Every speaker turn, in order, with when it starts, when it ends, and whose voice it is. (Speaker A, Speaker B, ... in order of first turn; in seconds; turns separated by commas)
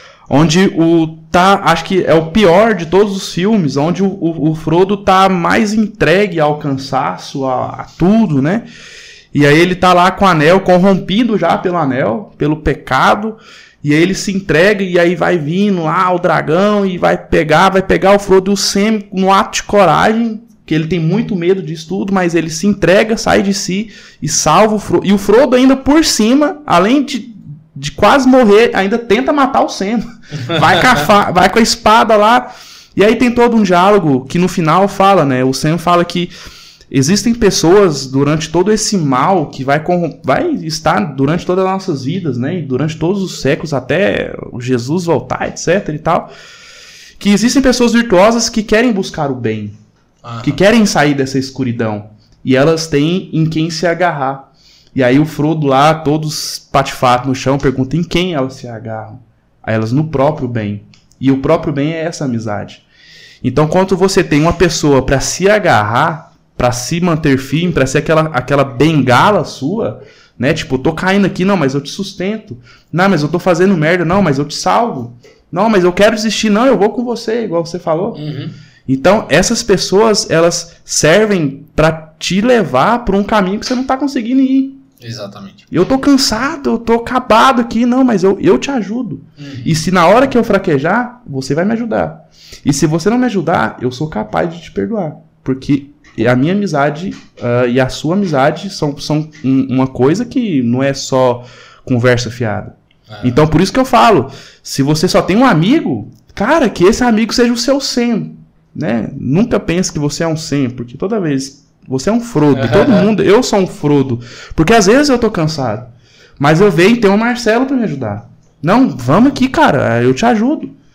Speaker A: 0.3-8.7, Speaker A: 9.3-36.3, Speaker A: 36.9-46.3, Speaker A: 47.2-49.8, Speaker B: 50.2-50.6, Speaker A: 50.4-62.8, Speaker A: 63.4-78.2, Speaker B: 78.1-78.5, Speaker A: 78.9-84.8, Speaker B: 85.0-85.7, Speaker A: 85.7-120.8, Speaker B: 89.4-89.8, Speaker B: 103.1-103.4, Speaker B: 112.5-113.1